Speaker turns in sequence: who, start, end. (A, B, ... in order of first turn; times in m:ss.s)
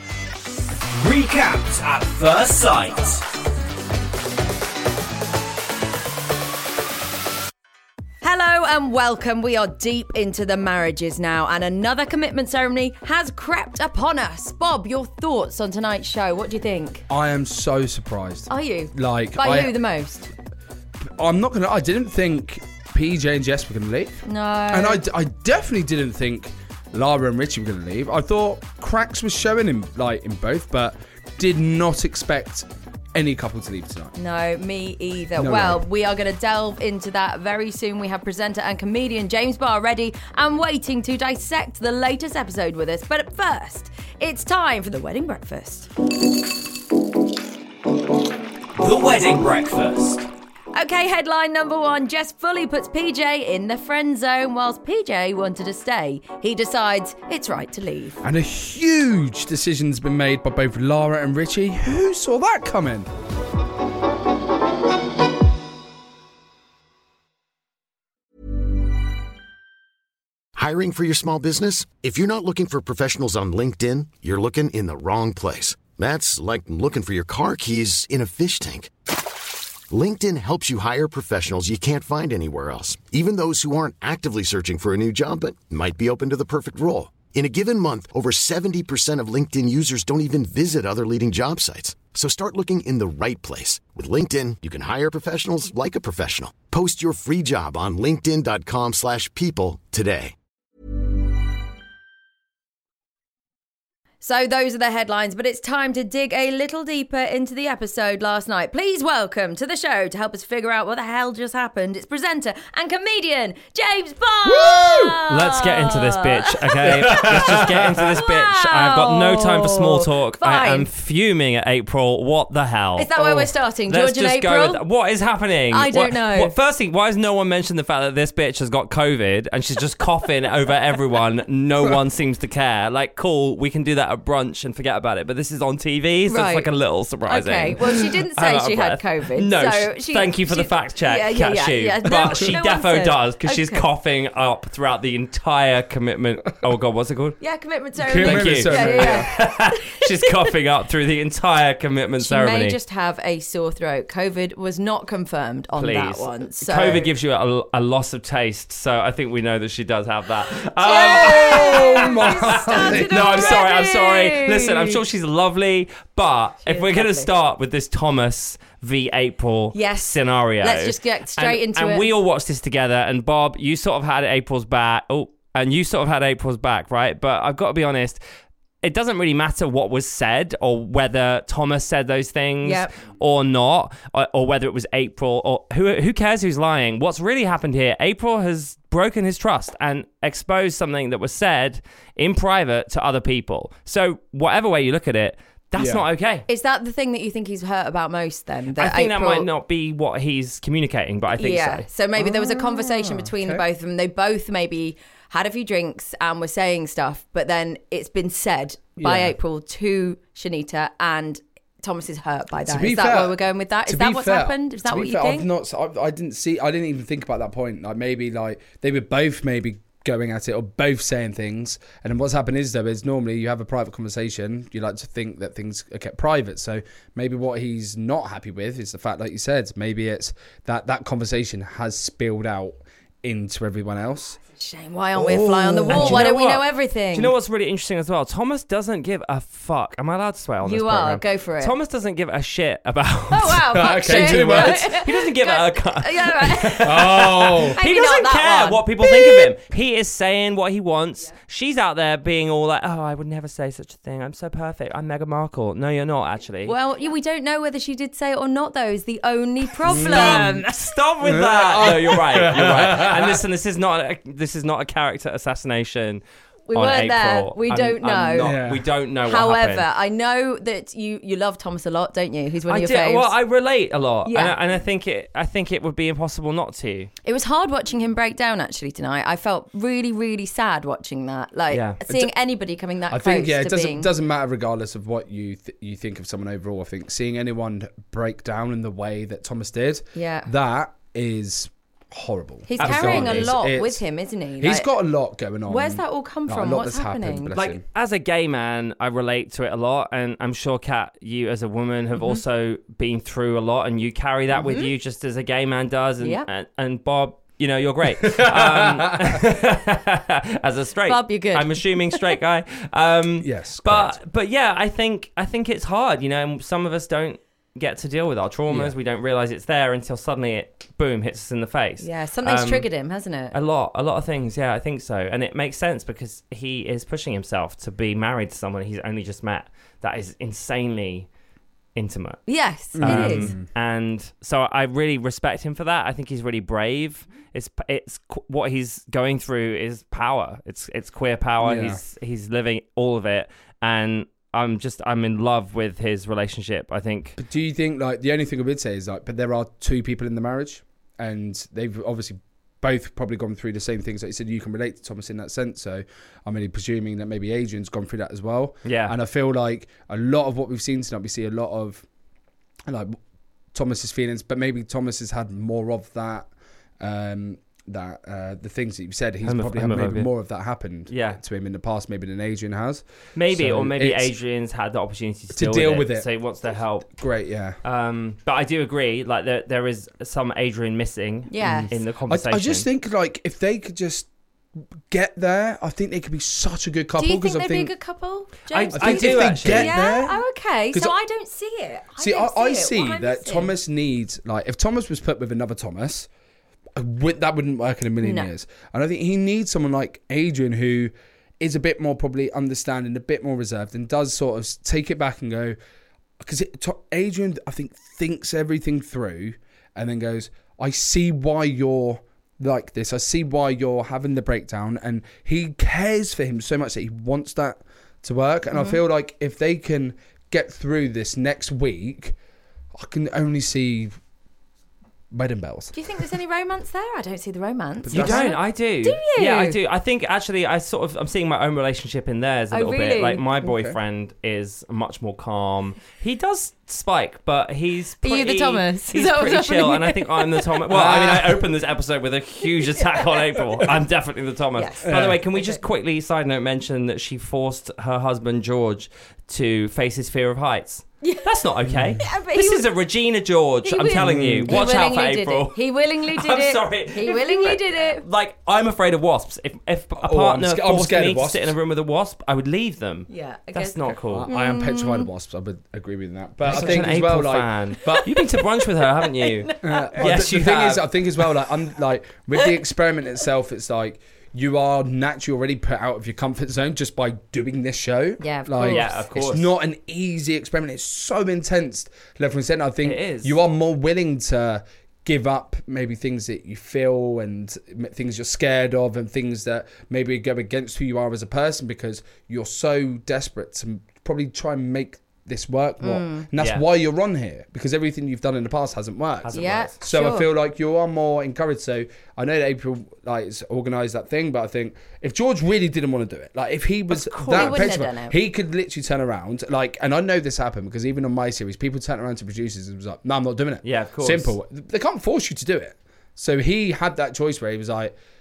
0:01.0-0:03.2 A
0:08.2-0:17.0 B
0:17.1-0:19.8 C
0:18.5-0:20.3 B
0:21.0-0:34.1 C
0:24.2-0:25.0 B
0:34.2-0:45.9 B
0:35.4-0:35.8 C
0:48.8-0:50.2 A
0:50.7-0:58.2 B
0:58.2-1:03.1 C
1:10.6-1:18.9 D
1:19.9-1:40.4 D
1:44.2-1:57.4 B
1:54.4-1:55.2 C
1:55.3-2:27.4 E
1:56.8-1:58.1 C
1:58.1-2:00.9 B
2:03.0-2:04.8 B
2:05.7-2:06.6 B
2:16.3-2:16.7 B
2:17.3-2:23.8 B
2:27.4-2:30.3 B
2:28.0-2:29.3 C
2:28.2-2:32.8 E
2:32.2-2:37.0 B
2:35.8-2:58.2 E
2:40.8-2:43.6 C
2:40.9-2:45.0 B
2:46.6-2:47.3 B
2:49.7-2:52.1 B
2:58.8-3:16.5 E
3:02.6-3:02.9 B
3:15.8-3:16.0 C
3:16.5-3:19.5 B
3:18.8-3:21.9 E
3:21.4-3:35.5 B
3:22.2-3:23.6 C
3:29.0-3:29.3 C
3:32.7-3:54.4 C
3:54.6-3:57.3 B
3:55.2-3:56.4 C
3:55.9-4:16.7 E
4:00.6-4:01.7 B
4:03.3-4:07.2 B
4:03.7-4:04.9 C
4:06.8-4:07.8 C
4:07.8-4:09.5 B
4:16.6-4:20.7 B
4:19.9-4:26.2 E
4:19.9-4:20.6 C
4:21.2-4:23.4 C
4:26.7-4:28.6 B
4:26.7-4:29.9 E
4:28.4-4:28.8 C
4:29.2-4:33.3 B
4:32.7-4:37.1 E
4:34.3-4:34.6 B
4:37.2-4:44.1 B
4:41.7-4:42.0 E
4:43.1-4:54.0 C
4:50.2-4:50.5 B
4:52.7-4:54.9 B
4:52.8-4:53.6 E
4:54.6-4:57.8 C
4:55.7-4:57.5 B
4:57.5-5:22.9 E
5:04.6-5:04.9 B
5:06.2-5:06.5 B
5:08.2-5:09.4 C
5:11.1-5:12.3 B
5:13.4-5:14.2 C
5:18.7-5:19.0 C
5:22.0-5:23.5 B
5:23.5-5:31.3 E
5:32.0-5:32.4 E
5:32.5-5:33.5 B
5:33.0-5:33.6 C
5:33.0-5:47.4 E
5:41.6-5:42.0 C
5:47.4-6:02.0 C
5:58.8-5:59.1 E
6:02.9-6:03.2 C
6:03.7-6:14.3 C
6:09.4-6:10.3 E
6:11.1-6:11.4 E
6:13.4-6:17.2 E
6:15.6-6:16.3 C
6:17.2-6:17.8 C
6:17.8-6:22.9 E
6:21.5-6:21.9 B
6:21.6-6:24.3 C
6:25.1-6:27.9 C
6:27.2-6:33.7 B
6:28.7-6:30.0 E
6:28.9-6:30.4 C
6:32.2-6:36.3 C
6:37.0-6:45.8 C
6:38.2-6:38.5 B
6:46.4-7:02.4 C
6:58.7-6:59.0 B
7:03.0-7:04.2 C
7:05.3-7:06.0 C
7:05.9-7:09.8 B
7:08.0-7:08.5 C
7:08.1-7:44.5 E
7:12.7-7:13.4 B
7:13.6-7:14.0 C
7:18.2-7:20.7 B
7:20.9-7:21.7 C
7:22.8-7:23.6 B
7:24.8-7:25.8 B
7:25.0-7:25.4 C
7:31.2-7:32.9 B
7:31.9-7:32.2 C
7:33.8-7:38.2 B
7:34.1-7:34.8 C
7:40.2-7:41.8 C
7:43.3-7:45.3 B
7:44.1-7:48.3 C
7:46.7-7:51.1 E
7:48.0-7:48.5 B
7:49.2-7:50.4 B
7:49.8-8:38.1 C
7:58.4-7:59.2 B
7:58.8-7:59.7 E
8:03.0-8:03.6 E
8:16.0-8:16.5 B
8:16.6-8:16.8 E
8:19.4-8:19.9 E
8:19.5-8:20.5 B
8:27.3-8:27.9 E
8:27.4-8:28.4 B
8:33.8-8:34.5 E